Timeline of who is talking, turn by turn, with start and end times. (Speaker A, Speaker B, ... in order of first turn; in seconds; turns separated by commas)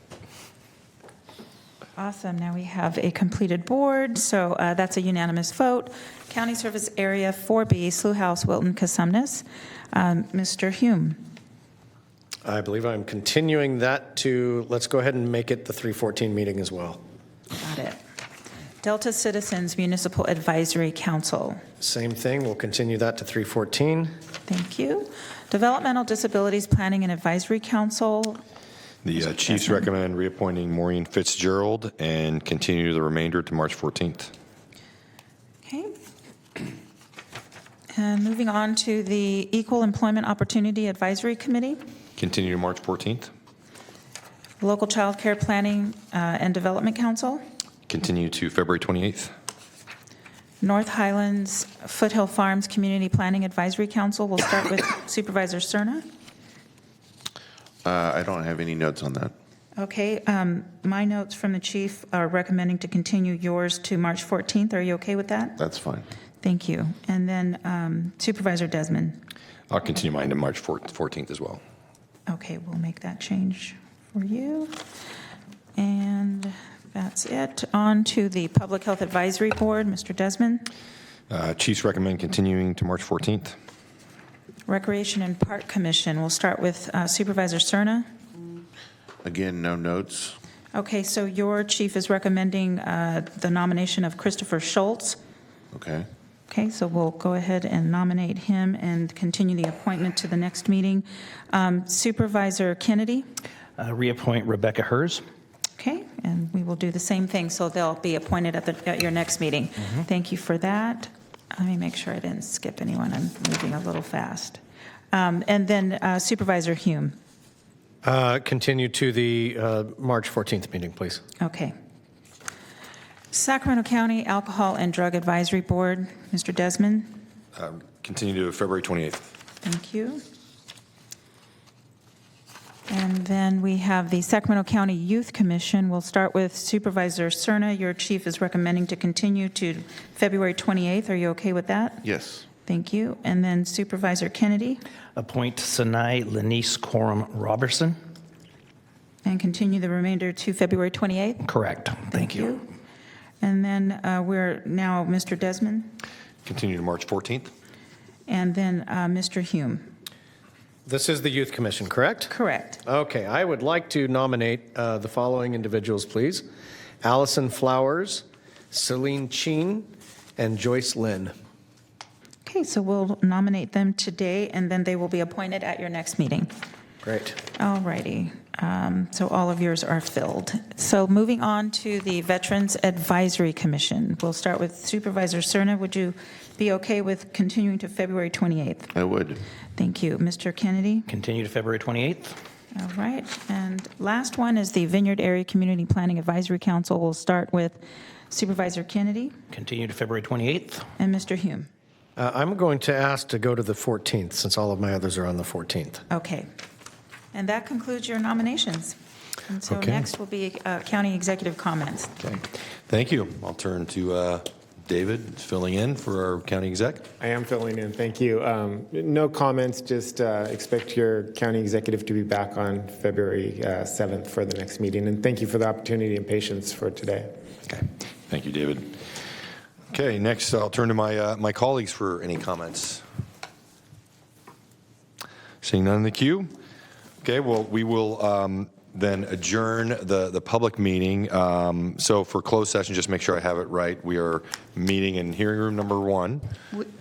Speaker A: 2.0-11.2, Speaker B: 12.4-17.0, Speaker A: 17.6-18.0, Speaker A: 18.8-21.6, Speaker B: 21.8-24.1, Speaker A: 24.5-28.4, Speaker C: 29.0-34.3, Speaker A: 29.2-29.9, Speaker A: 35.6-35.9, Speaker A: 37.9-41.8, Speaker C: 42.2-43.3, Speaker A: 44.6-47.4, Speaker C: 47.9-49.3, Speaker A: 50.6-56.0, Speaker D: 57.8-59.3, Speaker A: 59.8-65.6, Speaker D: 65.6-66.1, Speaker A: 66.4-69.2, Speaker C: 69.7-71.6, Speaker A: 72.3-74.8, Speaker A: 75.8-80.7, Speaker C: 81.3-83.5, Speaker A: 84.7-88.1, Speaker D: 89.2-90.4, Speaker A: 90.7-95.2, Speaker D: 95.7-96.1, Speaker A: 96.5-103.3, Speaker E: 103.8-105.3, Speaker A: 105.8-114.6, Speaker A: 115.1-117.2, Speaker B: 118.0-121.2, Speaker A: 121.4-121.7, Speaker A: 123.3-127.2, Speaker C: 127.5-129.3, Speaker A: 129.6-130.2, Speaker A: 132.9-142.0, Speaker D: 142.0-142.5, Speaker A: 142.7-144.8, Speaker E: 145.2-148.0, Speaker A: 149.2-151.4, Speaker E: 151.4-152.5, Speaker A: 152.1-152.7, Speaker A: 153.4-156.0, Speaker C: 156.4-157.5, Speaker A: 158.3-159.9, Speaker B: 160.9-162.3, Speaker A: 162.3-162.8, Speaker B: 162.8-166.5, Speaker B: 167.0-171.3, Speaker A: 172.4-176.5, Speaker B: 177.0-177.4, Speaker A: 177.5-188.9, Speaker D: 188.9-189.4, Speaker A: 189.8-191.1, Speaker E: 191.1-192.4, Speaker A: 192.7-199.3, Speaker E: 199.5-200.9, Speaker A: 201.0-201.7, Speaker B: 202.2-206.0, Speaker A: 206.1-206.5, Speaker A: 207.3-209.0, Speaker A: 209.5-212.2, Speaker C: 212.2-217.1, Speaker F: 217.2-227.3, Speaker C: 227.7-229.0, Speaker C: 229.9-233.0, Speaker C: 235.6-236.5, Speaker C: 237.2-246.5